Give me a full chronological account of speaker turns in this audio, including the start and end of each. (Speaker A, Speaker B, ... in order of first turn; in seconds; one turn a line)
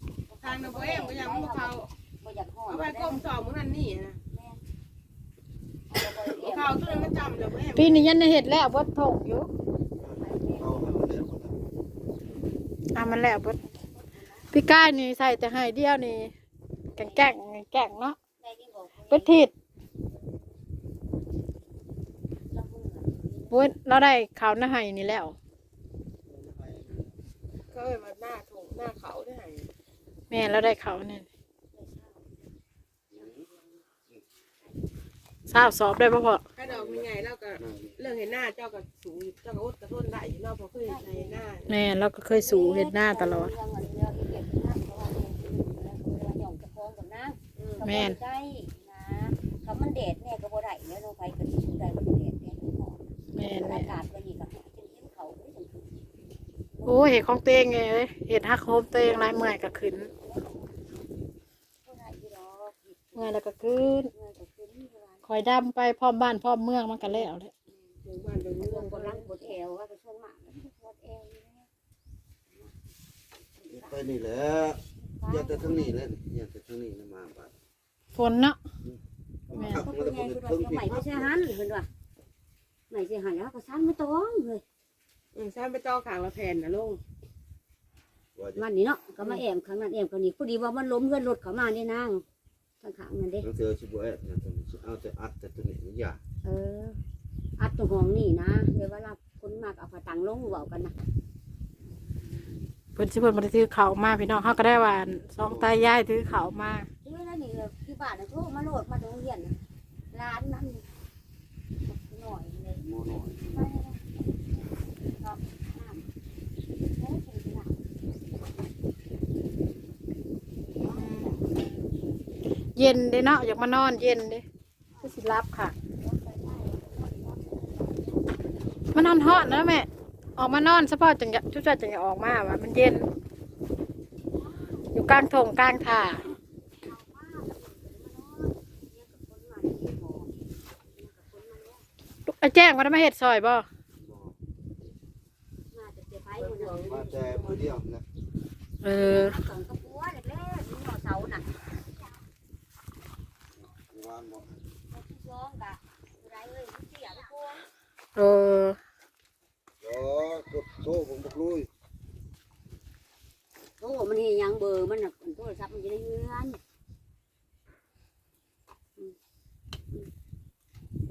Speaker A: 0.3-3.2
Speaker B: 0.4-1.9
Speaker B: 2.7-4.2
Speaker A: 4.3-4.6
Speaker A: 5.9-7.2
Speaker B: 6.1-8.1
Speaker C: 7.7-9.5
Speaker D: 10.0-11.6
Speaker A: 10.2-11.1
Speaker C: 12.9-13.6
Speaker A: 12.9-14.5
Speaker C: 14.5-16.3
Speaker A: 16.9-17.3
Speaker C: 17.0-18.2
Speaker A: 18.4-19.5
Speaker C: 19.1-19.5
Speaker A: 22.5-23.6
Speaker C: 23.5-25.3
Speaker D: 26.3-27.1
Speaker B: 27.7-29.7
Speaker C: 30.3-31.3
Speaker A: 31.7-32.3
Speaker D: 33.1-33.4
Speaker A: 33.1-33.8
Speaker C: 35.5-36.4
Speaker B: 36.5-41.7
Speaker D: 36.6-37.1
Speaker D: 37.6-38.0
Speaker A: 40.7-41.5
Speaker C: 41.7-43.5
Speaker A: 42.3-55.9
Speaker B: 47.6-47.8
Speaker C: 47.8-48.2
Speaker C: 53.3-53.9
Speaker A: 56.8-57.1
Speaker C: 56.8-60.1
Speaker A: 60.1-61.0
Speaker A: 61.8-63.4
Speaker C: 63.1-64.1
Speaker A: 64.0-65.3
Speaker C: 65.3-67.5
Speaker A: 67.0-68.0
Speaker B: 68.0-69.5
Speaker A: 68.5-71.7
Speaker A: 73.6-74.1
Speaker D: 73.7-77.5
Speaker A: 75.0-76.0
Speaker C: 78.1-78.6
Speaker D: 78.8-81.5
Speaker C: 79.5-79.9
Speaker A: 79.5-81.9
Speaker A: 82.9-84.6
Speaker B: 85.3-87.0
Speaker D: 88.3-88.6
Speaker A: 88.5-92.2
Speaker A: 92.8-93.5
Speaker D: 93.4-96.2
Speaker A: 96.4-97.0
Speaker A: 97.6-100.9
Speaker C: 103.0-106.9
Speaker D: 105.4-105.8
Speaker A: 107.0-109.6
Speaker A: 110.1-110.8
Speaker A: 111.8-116.1
Speaker D: 112.8-113.6
Speaker A: 116.9-117.8
Speaker A: 120.8-121.5
Speaker C: 120.8-121.3
Speaker C: 122.8-124.4
Speaker A: 124.9-125.3
Speaker C: 125.0-125.7
Speaker A: 125.9-128.4
Speaker C: 128.9-133.1
Speaker A: 128.9-129.6
Speaker A: 134.3-135.3
Speaker C: 134.9-136.2
Speaker A: 136.8-140.3
Speaker A: 140.9-141.8
Speaker C: 142.3-143.7
Speaker D: 144.0-144.4
Speaker A: 145.7-147.0
Speaker B: 146.3-147.6
Speaker D: 146.8-148.0
Speaker C: 148.8-149.4
Speaker A: 148.9-151.5
Speaker D: 153.6-154.6
Speaker A: 154.9-157.6
Speaker C: 158.2-158.8
Speaker D: 159.8-161.7
Speaker A: 163.8-166.6